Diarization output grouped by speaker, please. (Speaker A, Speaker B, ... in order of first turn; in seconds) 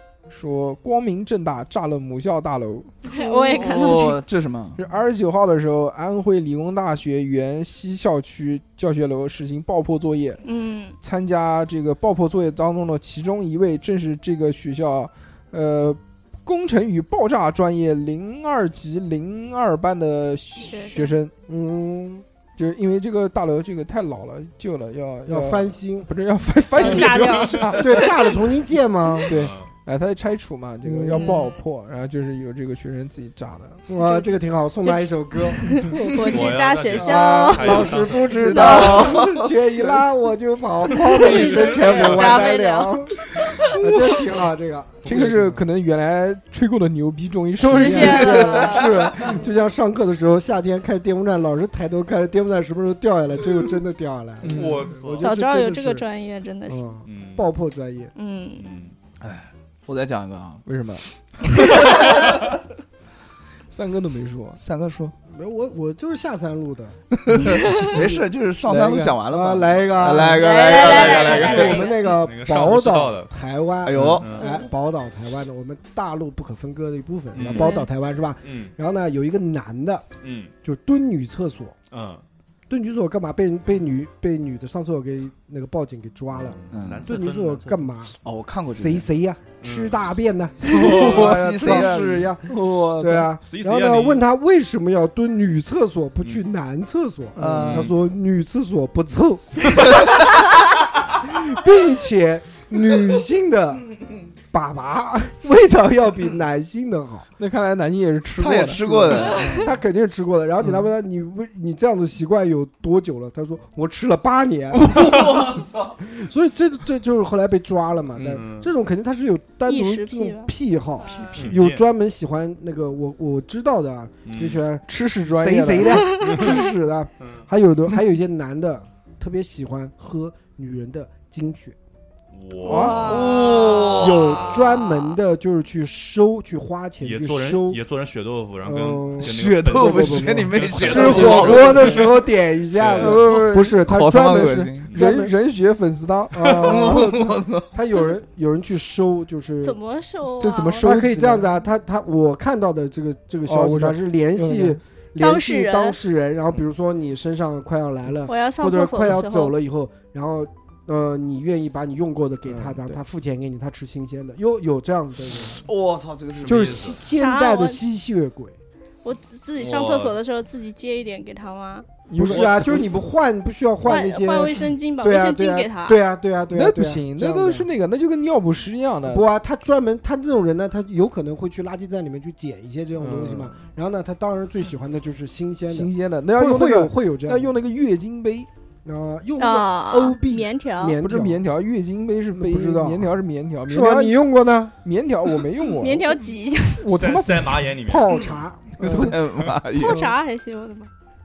Speaker A: 0.3-2.9, 4.8-10.4, 11.0-21.3, 22.6-27.8, 29.3-33.8, 45.0-48.6, 54.4-54.9, 60.6-61.0, 63.7-64.6, 67.9-69.2, 92.5-93.3, 97.4-97.9, 107.4-109.5, 118.2-118.4, 124.8-126.1, 132.6-133.2, 142.9-146.8, 150.4-151.5, 153.5-154.8, 162.4-163.0, 172.1-172.9, 176.5-179.2, 183.0-183.6, 185.7-188.5, 191.0-194.2, 194.8-196.2, 196.8-197.7
Speaker B: 3.0-4.2, 10.4-10.9, 20.6-21.1, 26.8-28.3, 31.1-31.6, 33.9-38.6, 41.1-44.1, 47.7-49.3, 55.2-56.8, 58.1-58.6, 70.2-72.0, 77.5-77.8, 119.7-121.4, 126.1-126.5, 132.7-134.0, 149.6-150.9, 155.2-156.0, 158.2-159.5, 167.1-167.8, 169.0-171.9, 173.8-176.0, 189.4-191.0, 195.7-196.9, 199.8-200.9
Speaker C: 3.2-4.8, 38.3-39.5, 48.3-49.1, 59.2-60.6, 61.5-62.5, 64.6-65.1, 67.2-71.8, 73.8-74.3, 86.7-87.1, 88.2-89.1, 90.6-92.5, 97.4-97.9, 108.3-109.7, 114.7-116.0, 132.9-134.6, 139.2-142.1, 143.8-144.9, 146.5-147.7, 165.4-167.0, 198.8-200.0
Speaker D: 21.5-22.2, 25.2-26.1, 26.8-27.2, 27.8-29.3, 30.8-31.4, 33.9-45.6, 47.6-56.0, 56.7-58.1, 65.3-67.0, 69.3-80.0, 80.6-81.7, 82.7-100.0, 101.2-103.8, 104.5-107.3, 109.5-131.7, 133.8-137.8, 138.6-145.3, 146.3-149.8, 150.8-165.7, 166.4-168.6, 172.1-177.7, 179.0-187.5, 188.8-191.4, 192.3-193.1, 193.7-194.7, 197.8-199.1, 199.8-200.1
Speaker E: 27.1-27.8, 29.3-29.7, 36.3-39.2, 41.0-42.4, 45.1-45.3, 54.5-55.3, 57.0-57.5, 58.6-58.9, 70.8-73.3, 74.2-74.6, 77.3-77.8, 78.4-78.7, 80.2-80.5, 81.9-82.2, 86.3-87.8, 89.6-90.0, 93.4-94.2, 118.3-118.7, 121.0-121.8, 124.2-124.6, 126.3-126.6, 127.2-127.5, 132.3-134.7, 137.0-143.2, 166.4-167.1, 169.6-170.2, 196.9-198.3